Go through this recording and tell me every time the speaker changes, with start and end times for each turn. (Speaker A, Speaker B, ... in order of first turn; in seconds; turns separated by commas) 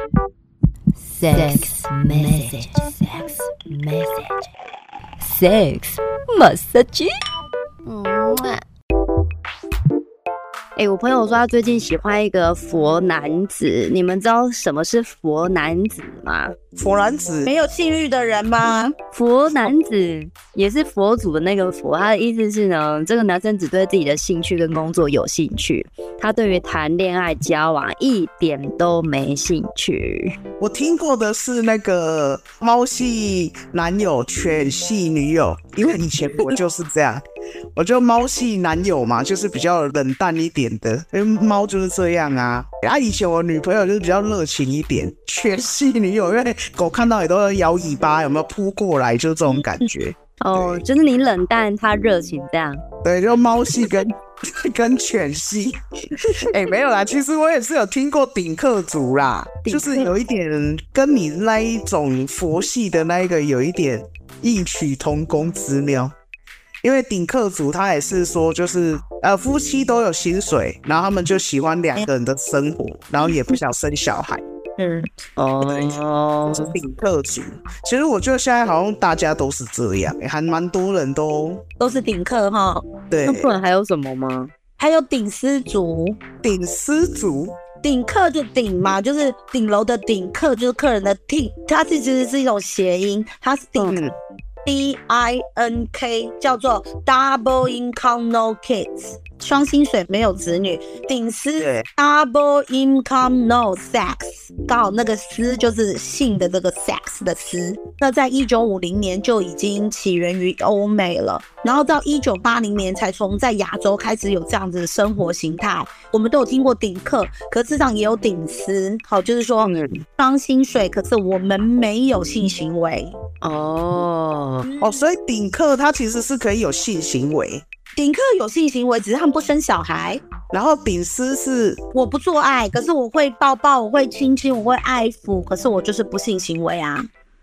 Speaker A: 1.2-3.1, Speaker B: 1.3-3.2, Speaker A: 5.2-6.9, Speaker B: 7.9-8.6, Speaker B: 10.8-16.5, Speaker C: 16.7-17.5, Speaker D: 17.4-18.9, Speaker B: 19.1-30.4, Speaker C: 30.6-37.2, Speaker C: 37.7-50.8, Speaker B: 50.4-52.8, Speaker C: 53.0-66.1, Speaker B: 59.6-60.1, Speaker C: 66.8-74.4, Speaker D: 74.8-75.1, Speaker B: 75.4-76.7, Speaker C: 76.5-81.6, Speaker D: 81.8-82.9, Speaker C: 83.1-83.5, Speaker B: 83.2-84.5, Speaker D: 84.8-86.2, Speaker C: 86.4-87.6, Speaker D: 87.8-94.0, Speaker C: 93.8-94.1, Speaker D: 94.6-123.2, Speaker C: 101.6-101.9, Speaker B: 119.6-120.0, Speaker B: 123.4-124.7, Speaker D: 124.7-125.0, Speaker C: 124.8-127.6, Speaker D: 128.0-130.2, Speaker C: 130.5-131.8, Speaker D: 131.9-137.1